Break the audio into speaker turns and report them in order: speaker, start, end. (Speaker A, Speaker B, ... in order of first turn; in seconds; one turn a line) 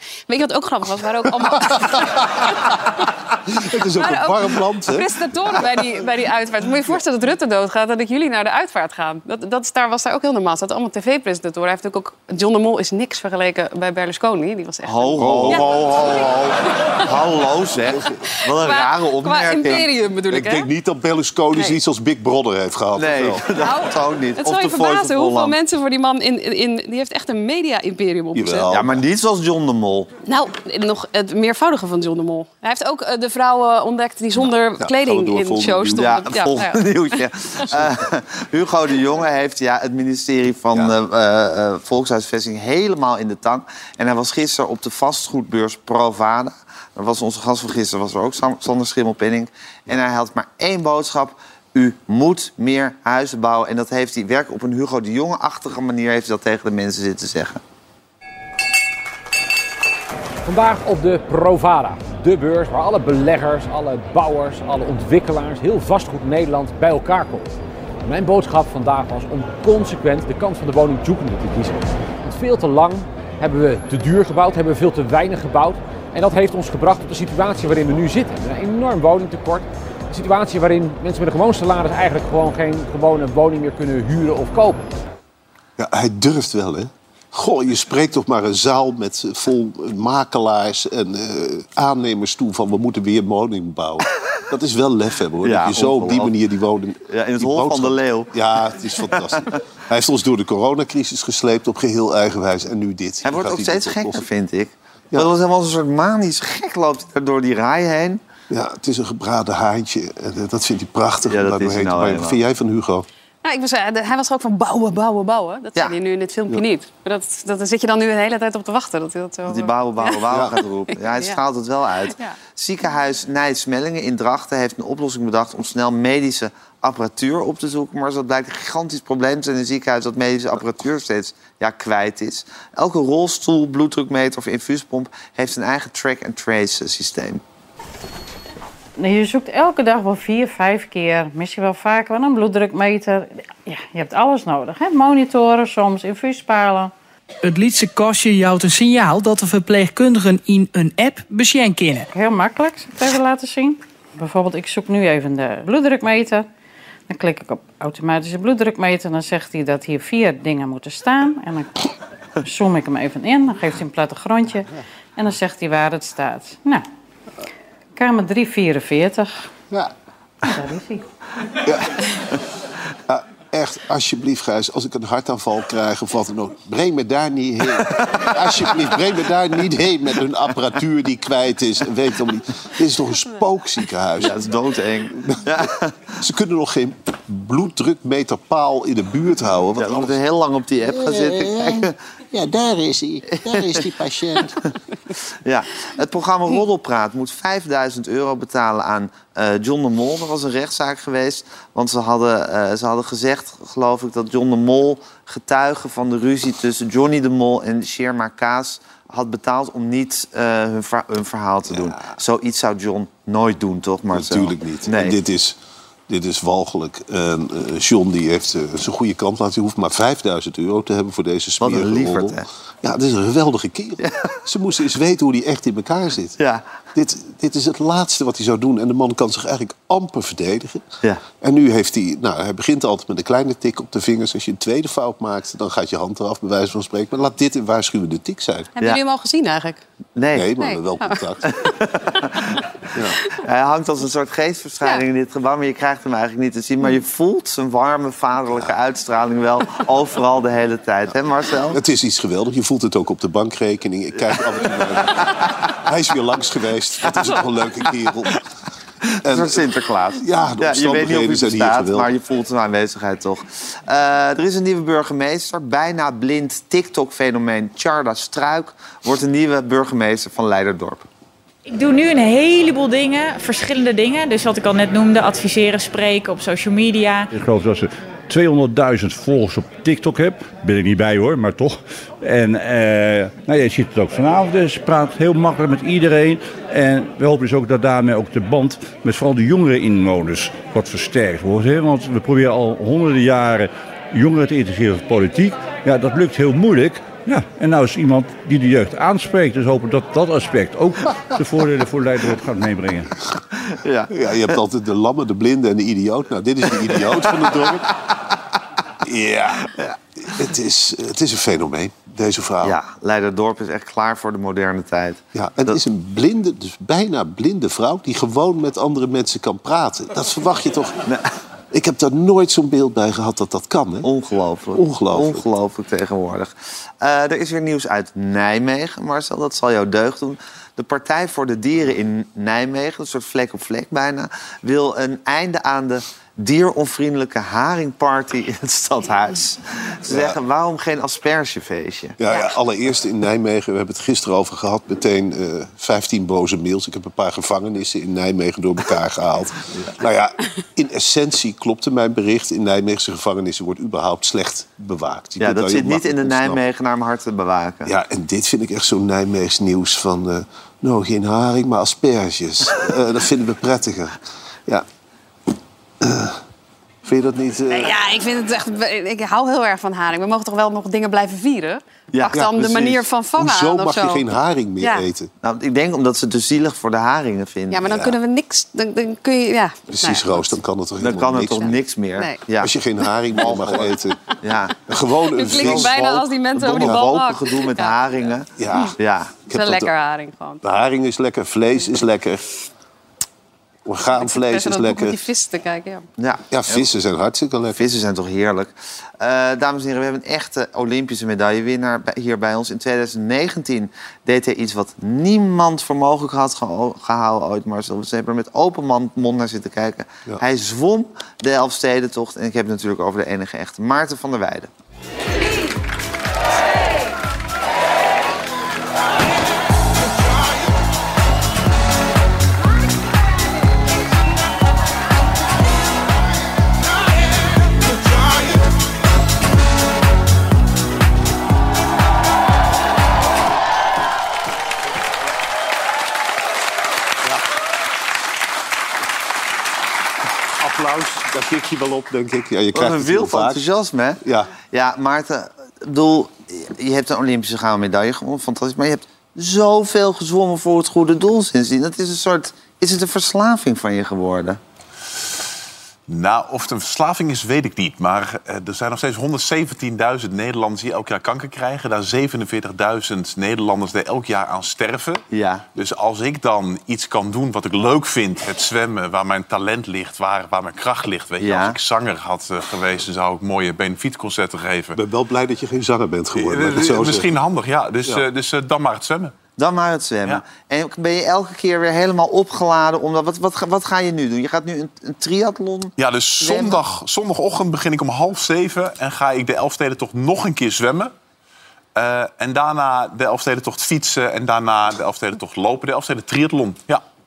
Speaker A: 0.3-2.8
Speaker B: 1.4-6.0
Speaker A: 4.0-16.3
Speaker C: 14.8-19.8
Speaker B: 15.2-16.3
Speaker B: 17.8-18.2
Speaker A: 18.5-20.7
Speaker B: 20.3-23.4
Speaker C: 23.0-25.6
Speaker A: 23.6-28.7
Speaker B: 28.3-29.0
Speaker C: 28.7-30.1
Speaker A: 30.2-36.8
Speaker B: 34.4-36.4
Speaker C: 35.9-57.6
Speaker D: 60.5-67.5
Speaker D: 68.0-84.9
Speaker B: 85.8-104.2
Speaker C: 95.4-96.3
Speaker C: 97.1-98.3
Speaker C: 99.1-99.5
Speaker C: 103.2-108.2
Speaker B: 108.5-113.0
Speaker C: 111.3-112.4
Speaker A: 113.4-121.4
Speaker C: 119.5-137.4
Speaker B: 120.3-120.5
Speaker E: 139.0-146.9
Speaker F: 147.4-152.1
Speaker E: 152.1-156.5
Speaker E: 157.1-161.9
Speaker E: 162.4-166.8
Speaker E: 167.9-169.5
Speaker E: 170.4-171.1
Speaker B: 171.6-172.0
Speaker B: 173.1-184.4
Speaker C: 177.8-178.8
Speaker C: 184.2-186.1
Speaker B: 185.2-185.7
Speaker B: 186.2-190.2
Speaker C: 189.8-191.9
Speaker B: 190.8-194.6
Speaker C: 193.3-193.9
Speaker C: 195.4-215.2
Speaker B: 211.7-212.1
Speaker B: 214.1-226.4
Speaker C: 221.6-222.4
Speaker C: 224.0-224.3
Speaker C: 226.4-226.6
Speaker B: 226.9-230.8
Speaker B: 231.4-238.7
Speaker A: 238.8-239.8
Speaker C: 240.2-240.5
Speaker B: 240.3-241.5
Speaker A: 240.6-241.2
Speaker C: 241.5-242.6
Speaker B: 242.9-243.2
Speaker C: 243.4-251.8
Speaker B: 251.7-258.4
Speaker C: 254.3-255.5
Speaker B: 259.2-259.6
Speaker C: 259.2-271.0
Speaker B: 260.1-262.1
Speaker G: 271.7-277.3
Speaker H: 277.3-303.1
Speaker C: 303.6-304.5
Speaker B: 304.1-308.0
Speaker C: 306.8-307.6
Speaker B: 309.0-312.8
Speaker C: 312.6-315.8
Speaker B: 315.3-321.0
Speaker B: 321.7-324.1
Speaker C: 324.0-342.2
Speaker B: 324.7-325.4
Speaker B: 340.1-340.4
Speaker B: 342.2-356.6
Speaker C: 355.4-357.9
Speaker B: 357.9-364.8
Speaker B: 366.0-366.4
Speaker B: 367.0-368.0
Speaker A: 367.7-374.2
Speaker C: 372.1-372.4
Speaker B: 372.3-375.3
Speaker A: 374.8-375.1
Speaker C: 375.4-378.1
Speaker A: 377.7-380.4
Speaker B: 379.9-381.8
Speaker C: 381.0-382.7
Speaker B: 382.6-384.2
Speaker C: 383.3-384.8
Speaker B: 384.9-387.2
Speaker A: 385.3-387.9
Speaker C: 385.5-385.9
Speaker C: 386.5-389.3
Speaker B: 388.6-389.9
Speaker A: 389.5-390.6
Speaker B: 390.6-392.5
Speaker B: 393.8-395.2
Speaker A: 394.1-396.1
Speaker C: 396.2-396.9
Speaker B: 396.5-397.8
Speaker C: 397.8-414.7
Speaker B: 440.6-443.6
Speaker C: 442.7-454.6
Speaker B: 444.2-444.5
Speaker I: 456.1-465.2
Speaker C: 465.3-465.6
Speaker I: 465.8-475.0
Speaker C: 471.4-471.8
Speaker B: 474.9-477.3
Speaker I: 476.3-479.3
Speaker C: 479.6-486.8
Speaker I: 486.0-491.1
Speaker I: 491.9-497.0